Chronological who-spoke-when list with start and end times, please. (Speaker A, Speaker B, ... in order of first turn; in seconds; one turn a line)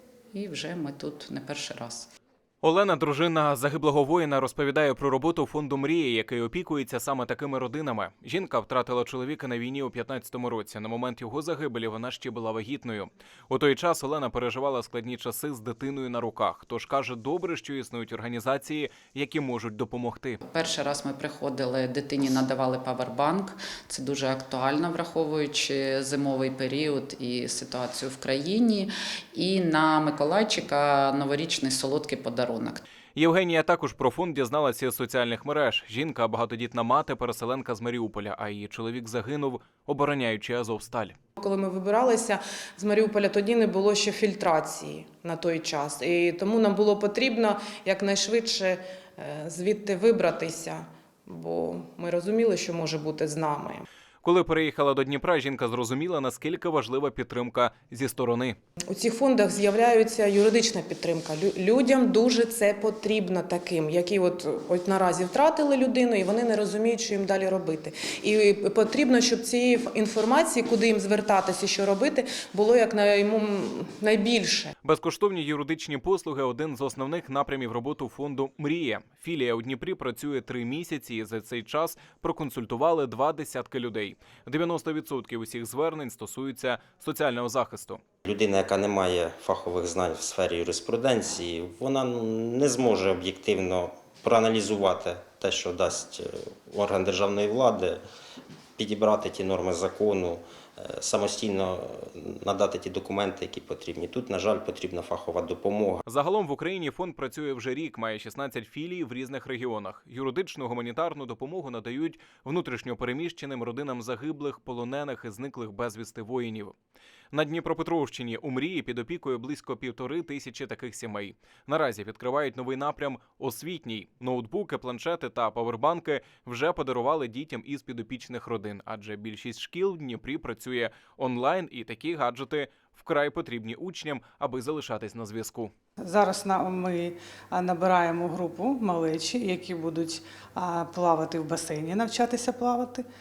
Speaker A: 0.3-2.1
Speaker B: 2.6-20.4
Speaker A: 20.4-32.8
Speaker B: 33.2-41.2
Speaker C: 41.4-53.9
Speaker B: 54.2-58.6
Speaker C: 58.9-74.7
Speaker B: 74.8-88.0
Speaker D: 88.2-98.0
Speaker D: 98.8-106.0
Speaker B: 106.1-116.8
Speaker B: 117.3-135.7
Speaker E: 136.0-143.1